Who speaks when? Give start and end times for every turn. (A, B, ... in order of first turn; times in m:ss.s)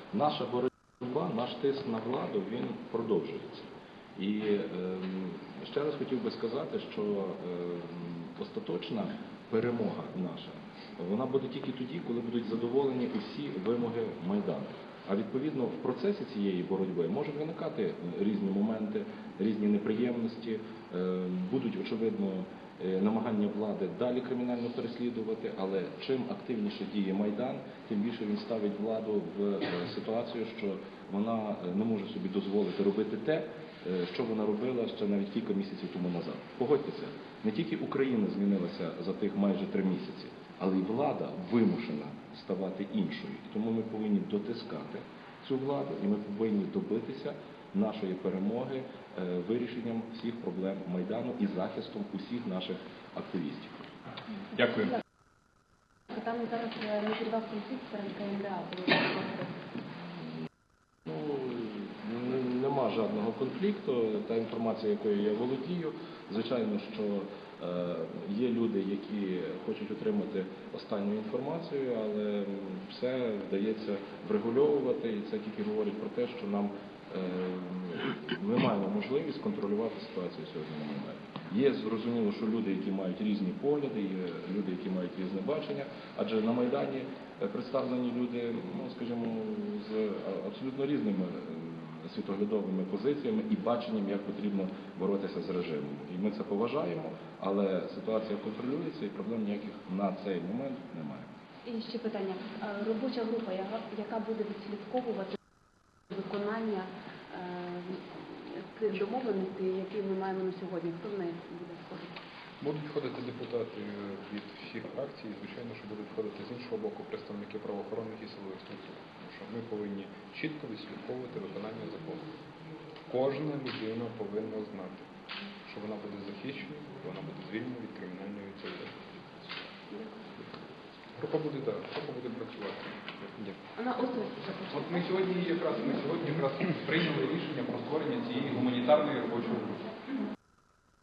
0:00.1-0:53.9 A
0:54.5-0:55.0 B
0:56.1-0:59.6 C
1:01.1-1:41.3 A
1:41.7-1:45.4 C
1:46.1-1:52.1 C
1:52.6-2:02.2 B
2:03.1-2:05.1 B
2:05.6-2:09.6 B
2:11.2-2:13.6 B
2:13.8-2:14.7 C
2:14.7-2:19.8 B